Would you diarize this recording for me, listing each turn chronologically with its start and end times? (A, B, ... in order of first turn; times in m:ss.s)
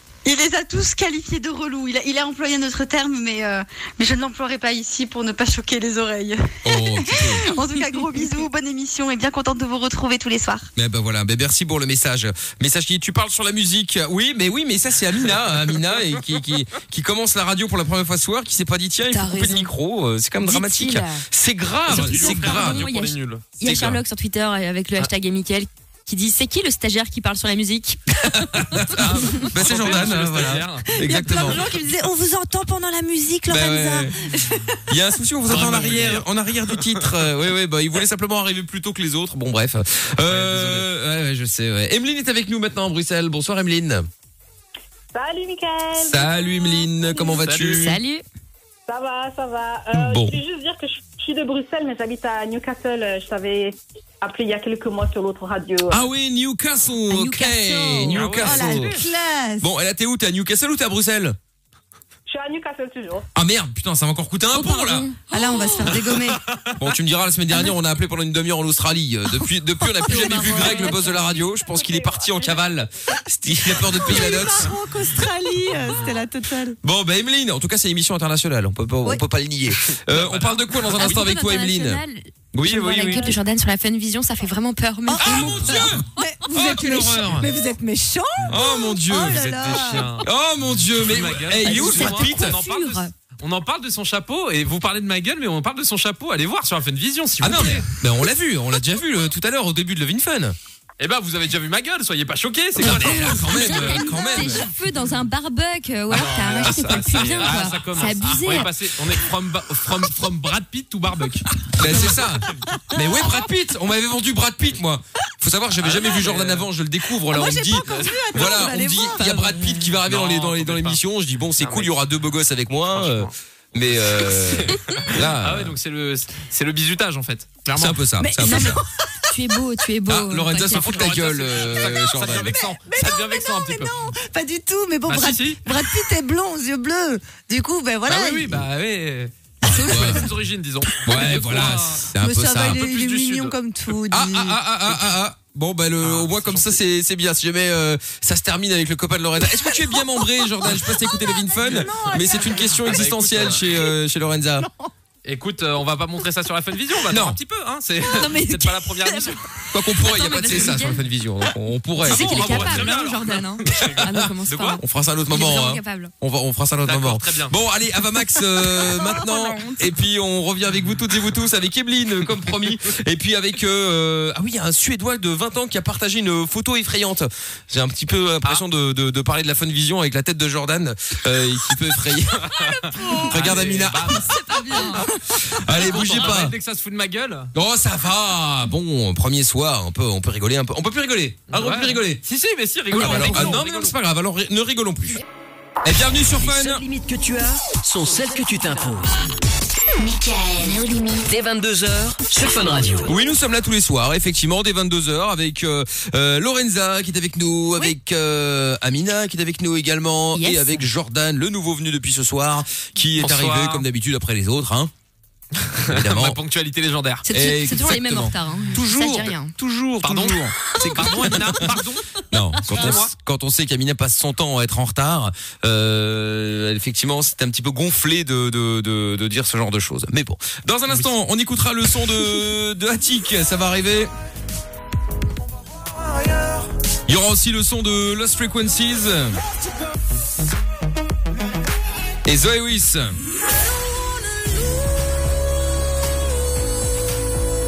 0:00.2-0:10.7 A
0:06.6-0:07.5 B
0:10.8-0:22.9 B
0:19.1-0:19.7 C
0:20.4-0:21.2 C
0:21.9-0:23.4 D
0:21.9-0:28.0 C
0:23.6-0:24.0 B
0:28.1-0:31.7 B
0:28.9-0:30.9 D
0:30.9-0:34.8 E
0:33.5-0:34.2 B
0:34.9-0:44.1 B
0:35.5-0:37.2 D
0:40.2-0:40.9 D
0:45.1-0:47.4 F
0:46.0-0:48.0 B
0:47.4-0:47.9 D
0:47.7-0:48.2 C
0:48.9-0:56.0 F
0:49.9-0:50.4 B
0:55.9-0:58.9 B
0:57.1-0:58.2 C
0:58.1-0:59.0 D
0:58.4-0:59.6 E
0:59.6-1:01.4 B
1:02.3-1:03.3 F
1:03.3-1:05.1 B
1:04.5-1:06.0 C
1:05.3-1:06.4 E
1:05.9-1:06.8 D
1:06.8-1:14.7 B
1:09.9-1:10.8 E
1:10.1-1:11.0 C
1:10.8-1:12.9 F
1:13.7-1:16.8 E
1:16.8-1:22.0 B
1:19.9-1:21.2 D
1:21.0-1:25.7 C
1:22.5-1:23.4 B
1:25.1-1:30.2 E
1:25.2-1:27.5 B
1:28.5-1:32.6 B
1:29.4-1:30.3 D
1:31.0-1:37.9 D
1:31.6-1:33.1 C
1:37.4-1:40.6 B
1:41.0-1:43.8 D
1:42.8-1:44.7 B
1:42.9-1:48.7 C
1:46.1-1:52.6 D
1:46.2-1:47.8 B
1:51.8-2:05.8 B
1:55.8-1:56.7 D
1:57.2-1:59.3 E
1:58.0-1:58.4 D
1:59.2-1:59.8 C
2:00.0-2:01.0 D
2:01.6-2:01.9 D
2:02.9-2:03.3 D
2:03.9-2:08.1 D
2:07.7-2:08.8 B
2:08.3-2:08.8 E
2:08.4-2:11.1 C
2:10.1-2:12.6 B
2:10.6-2:13.9 D
2:12.4-2:18.6 E
2:15.1-2:15.7 D
2:18.1-2:23.5 D
2:19.6-2:20.2 B
2:19.6-2:20.2 C
2:21.0-2:22.8 B
2:22.2-2:24.6 E
2:24.1-2:34.7 B
2:26.0-2:26.8 D
2:29.6-2:32.9 E
2:32.8-2:33.8 D
2:35.2-2:39.4 D
2:37.1-2:37.4 B
2:38.1-2:39.3 C
2:39.7-2:43.0 B
2:39.9-2:41.0 C
2:42.0-2:44.8 D
2:42.0-2:46.1 C
2:43.7-3:04.3 B
2:46.8-2:47.5 D
2:49.2-2:49.8 C
3:02.4-3:07.5 D
3:03.0-3:03.3 E
3:04.4-3:05.0 C
3:05.1-3:06.5 B
3:07.5-3:12.2 B
3:11.5-3:14.0 D
3:12.9-3:15.2 B
3:13.0-3:13.4 C
3:15.8-3:16.8 B
3:16.3-3:19.2 G
3:20.0-3:21.2 C
3:21.2-3:23.1 G
3:23.0-3:34.9 B
3:30.3-3:30.8 C
3:33.2-3:33.8 D
3:35.6-3:37.2 D
3:35.9-3:36.4 B
3:37.2-3:39.5 C
3:37.3-3:54.1 B
3:40.0-3:43.1 D
3:57.1-3:59.4 B
4:02.2-4:03.1 B